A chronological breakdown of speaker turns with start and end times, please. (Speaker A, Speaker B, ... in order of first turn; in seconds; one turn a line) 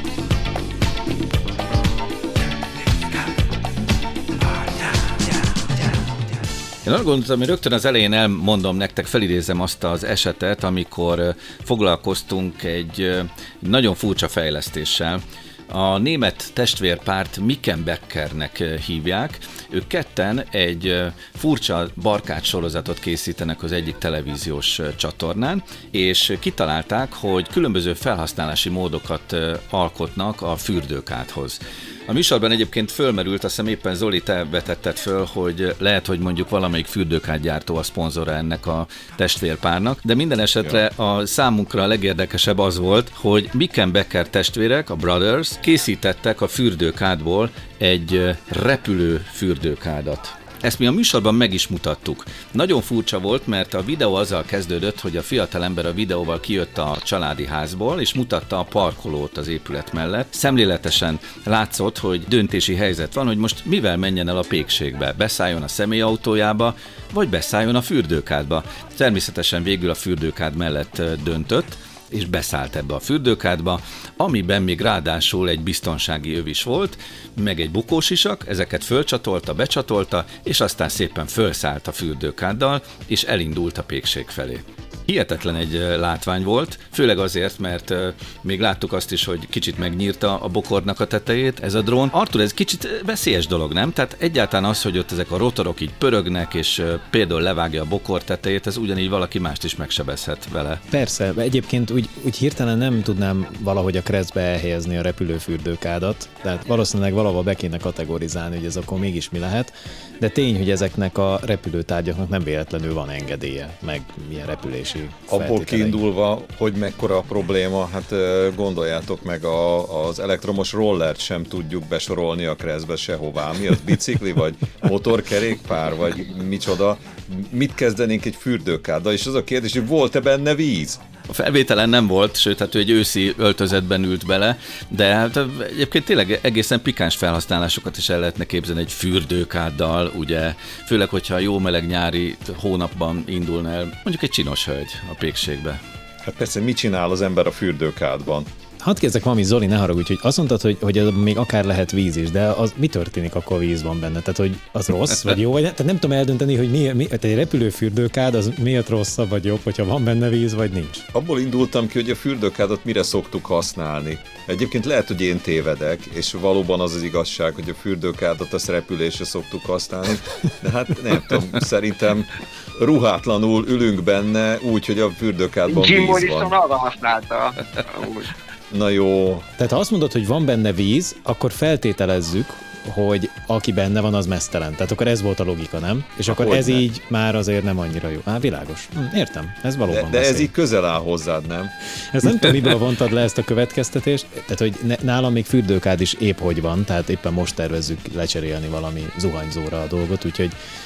Speaker A: 6.8-100.8
Speaker B: 100.9-116.0
Speaker C: 115.3-131.0
Speaker A: 131.3-145.8
Speaker C: 146.2-148.5
Speaker B: 148.8-161.0
Speaker C: 161.1-176.5
Speaker D: 175.7-178.3
Speaker C: 178.7-179.5
Speaker B: 179.6-190.5
Speaker C: 186.3-186.8
Speaker C: 189.9-191.7
Speaker B: 192.1-200.5